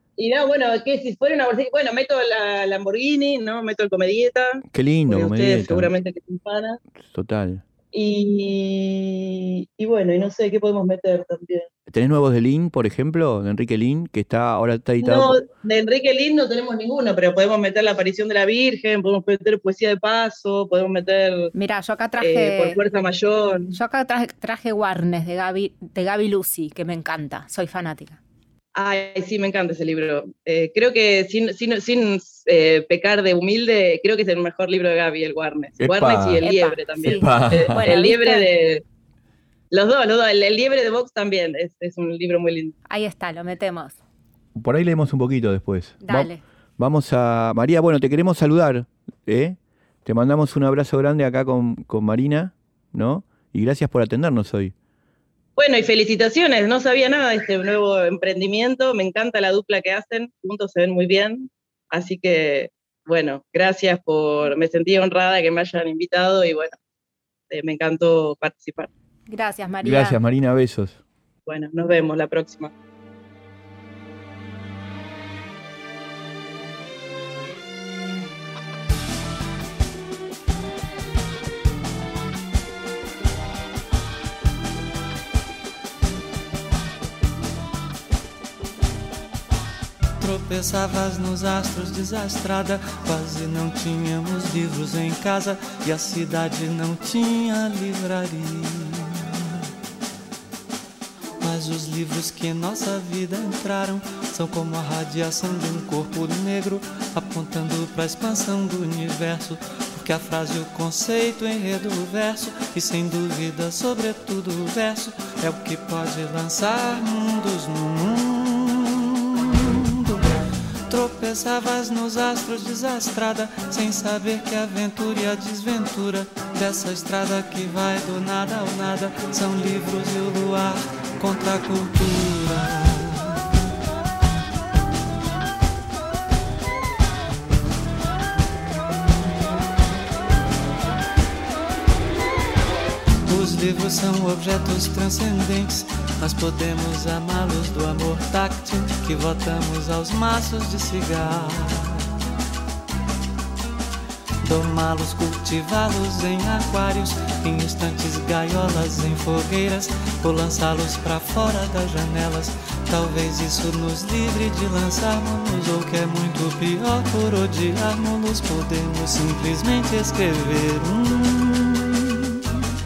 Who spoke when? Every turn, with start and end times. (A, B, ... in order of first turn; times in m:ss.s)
0:00.2-0:06.8 A
0:04.7-0:05.9 B
0:07.0-0:07.6 B
0:07.9-0:11.7 A
0:11.9-0:15.4 B
0:15.0-0:21.5 A
0:21.5-0:22.8 C
0:22.2-0:23.7 A
0:23.7-0:28.2 C
0:28.7-0:38.8 A
0:35.8-0:36.4 B
0:36.4-0:38.5 C
0:37.0-0:37.8 B
0:39.7-0:42.7 A
0:42.9-0:44.0 C
0:44.5-0:54.7 B
0:46.0-0:46.4 C
0:55.6-1:06.8 A
1:07.5-1:08.9 A
1:09.3-1:10.2 C
1:09.8-1:11.0 B
1:11.5-1:12.7 A
1:30.2-1:39.4 D
1:41.4-2:00.3 D
2:00.9-2:13.3 D
2:23.2-2:32.0 D
2:34.4-2:52.4 D